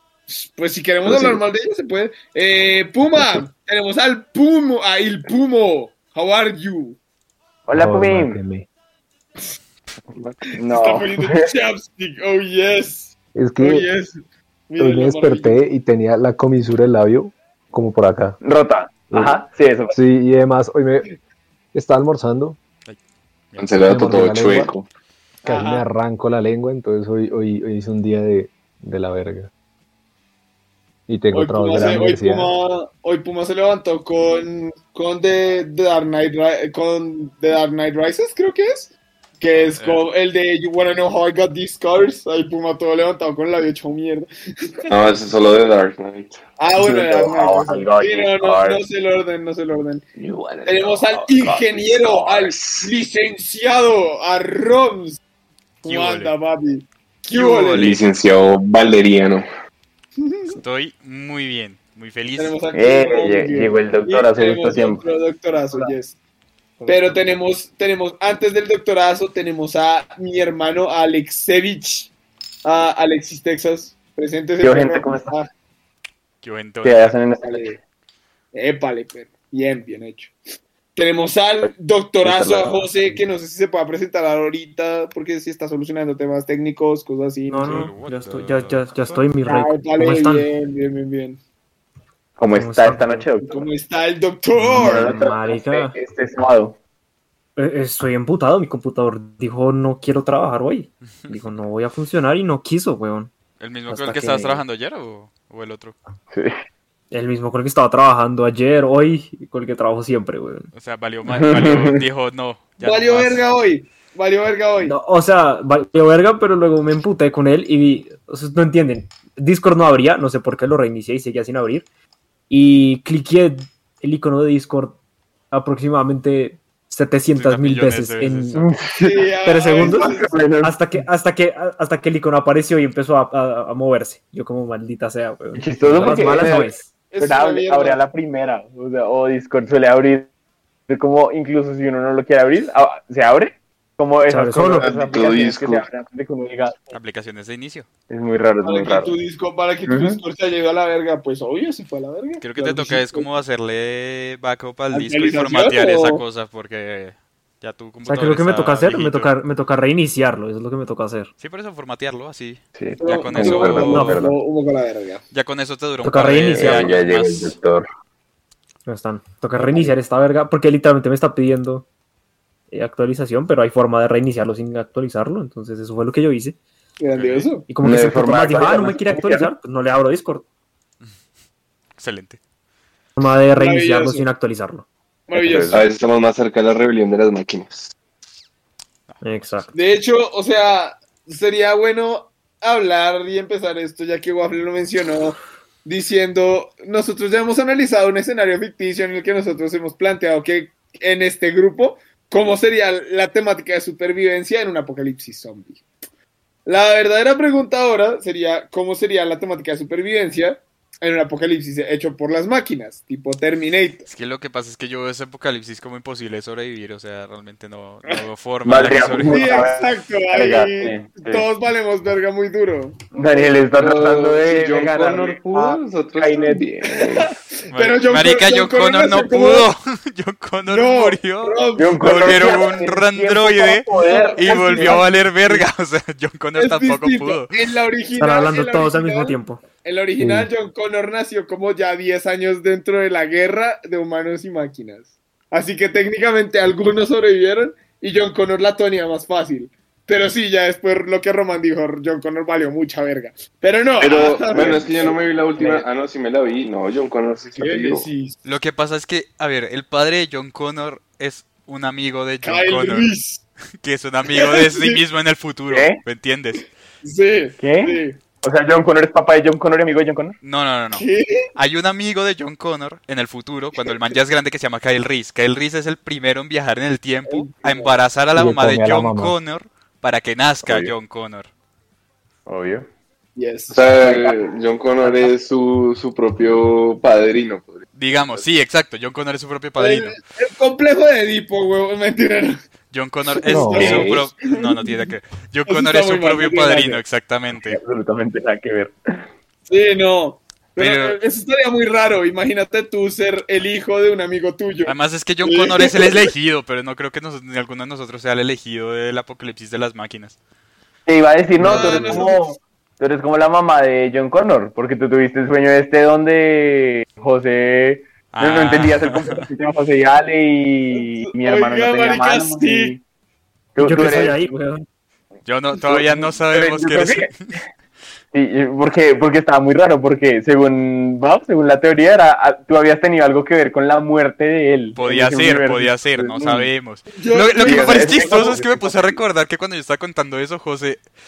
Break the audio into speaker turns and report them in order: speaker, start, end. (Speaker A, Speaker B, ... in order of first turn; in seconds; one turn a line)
Speaker A: 0.3-7.0
Speaker B: 1.0-1.4
Speaker C: 3.1-3.4
Speaker D: 7.7-8.4
Speaker C: 7.7-8.7
Speaker B: 10.0-10.4
Speaker D: 10.6-11.4
Speaker A: 10.6-15.6
Speaker C: 13.3-13.9
Speaker C: 14.8-18.4
Speaker D: 18.4-19.9
Speaker C: 19.1-19.4
Speaker C: 19.9-21.1
Speaker C: 21.7-22.6
Speaker E: 23.5-24.3
Speaker B: 23.6-24.9
Speaker C: 23.9-24.7
Speaker C: 25.4-29.5
Speaker A: 25.4-25.9
Speaker C: 31.1-32.5
Speaker A: 31.3-45.0
Speaker E: 39.7-40.1
Speaker B: 44.9-46.4
Speaker A: 46.6-50.0
Speaker D: 46.8-48.8
Speaker B: 50.1-52.9
Speaker A: 50.6-55.2
Speaker A: 55.8-58.0
Speaker E: 55.8-56.3
Speaker E: 57.3-58.0
Speaker B: 57.7-59.5
Speaker A: 60.2-60.6
Speaker E: 60.5-62.6
Speaker A: 62.4-66.1
Speaker D: 62.7-65.0
Speaker D: 66.8-67.1
Speaker A: 66.8-72.1
Speaker A: 72.6-75.5
Speaker D: 74.6-75.3
Speaker E: 76.4-77.2
Speaker D: 76.8-77.8
Speaker A: 77.5-77.8
Speaker A: 78.5-80.3
Speaker A: 80.9-87.9
Speaker D: 82.3-82.6
Speaker F: 87.5-90.5
Speaker E: 87.6-89.3
Speaker A: 89.5-91.4
Speaker D: 92.4-93.6
Speaker F: 92.5-93.2
Speaker A: 93.5-95.3
Speaker F: 94.6-95.9
Speaker D: 94.7-96.8
Speaker F: 97.6-103.3
Speaker E: 103.6-105.9
Speaker F: 103.9-104.6
Speaker F: 107.1-110.7
Speaker E: 110.7-113.4
Speaker D: 111.3-112.0
Speaker A: 112.8-114.9
Speaker F: 114.8-121.8
Speaker F: 122.5-125.0
Speaker F: 125.5-128.7
Speaker E: 127.3-128.7
Speaker D: 128.6-130.8
Speaker A: 128.9-130.3
Speaker F: 129.4-130.1
Speaker F: 130.6-136.8
Speaker D: 135.5-140.3
Speaker A: 137.1-138.0
Speaker D: 140.9-146.8
Speaker F: 144.3-144.9
Speaker B: 144.8-145.8
Speaker E: 146.9-147.8
Speaker D: 148.1-149.1
Speaker A: 148.6-153.3
Speaker D: 149.9-150.2
Speaker E: 152.4-159.3
Speaker A: 154.9-156.2
Speaker F: 158.1-161.3
Speaker E: 161.4-164.2
Speaker C: 162.8-164.4
Speaker A: 163.0-165.2
Speaker E: 165.3-167.5
Speaker F: 166.0-167.0
Speaker C: 166.6-167.8
Speaker F: 168.8-171.8
Speaker F: 172.7-176.6
Speaker A: 177.0-177.7
Speaker E: 177.1-177.5
Speaker F: 177.7-180.4
Speaker C: 177.8-179.2
Speaker D: 178.6-178.9
Speaker E: 182.0-182.4
Speaker F: 183.2-184.8
Speaker A: 183.5-184.2
Speaker A: 185.3-185.8
Speaker C: 185.3-185.7
Speaker B: 185.7-187.9
Speaker F: 189.2-189.7
Speaker A: 189.7-205.8
Speaker A: 206.7-214.1
Speaker E: 214.1-219.6
Speaker D: 218.7-221.5
Speaker A: 219.2-223.4
Speaker D: 223.1-226.6
Speaker B: 223.7-227.3
Speaker A: 226.9-229.7
Speaker E: 227.7-237.5
Speaker A: 230.7-232.7
Speaker D: 231.8-235.1
Speaker A: 233.9-235.6
Speaker A: 236.6-255.8
Speaker F: 238.2-239.6
Speaker C: 240.2-240.5
Speaker B: 254.0-258.1
Speaker A: 257.6-258.4
Speaker E: 258.4-263.1
Speaker A: 262.4-263.4
Speaker E: 263.8-266.7
Speaker A: 264.4-265.0
Speaker D: 265.7-266.0
Speaker A: 267.0-268.2
Speaker D: 267.6-270.4
Speaker E: 270.4-281.5
Speaker A: 270.9-271.5
Speaker A: 277.3-278.0
Speaker C: 278.3-279.4
Speaker D: 280.6-280.9
Speaker D: 282.4-282.9
Speaker A: 283.4-283.9
Speaker B: 283.7-287.9
Speaker E: 287.9-290.2
Speaker A: 289.8-292.6
Speaker E: 292.9-297.8
Speaker A: 293.4-295.1
Speaker C: 293.5-293.8
Speaker B: 293.6-294.3
Speaker A: 295.7-297.0
Speaker D: 297.6-299.2
Speaker A: 299.7-304.9
Speaker E: 300.8-301.1
Speaker E: 304.8-310.4
Speaker A: 305.4-306.2
Speaker D: 311.1-323.0
Speaker A: 311.6-312.4
Speaker F: 311.7-312.5
Speaker E: 318.3-319.4
Speaker A: 321.0-323.0
Speaker D: 323.7-324.4
Speaker F: 323.8-324.9
Speaker E: 325.4-327.4
Speaker D: 325.9-327.3
Speaker D: 328.3-336.7
Speaker E: 334.9-341.0
Speaker A: 337.1-338.5
Speaker D: 337.6-339.1
Speaker B: 337.7-338.7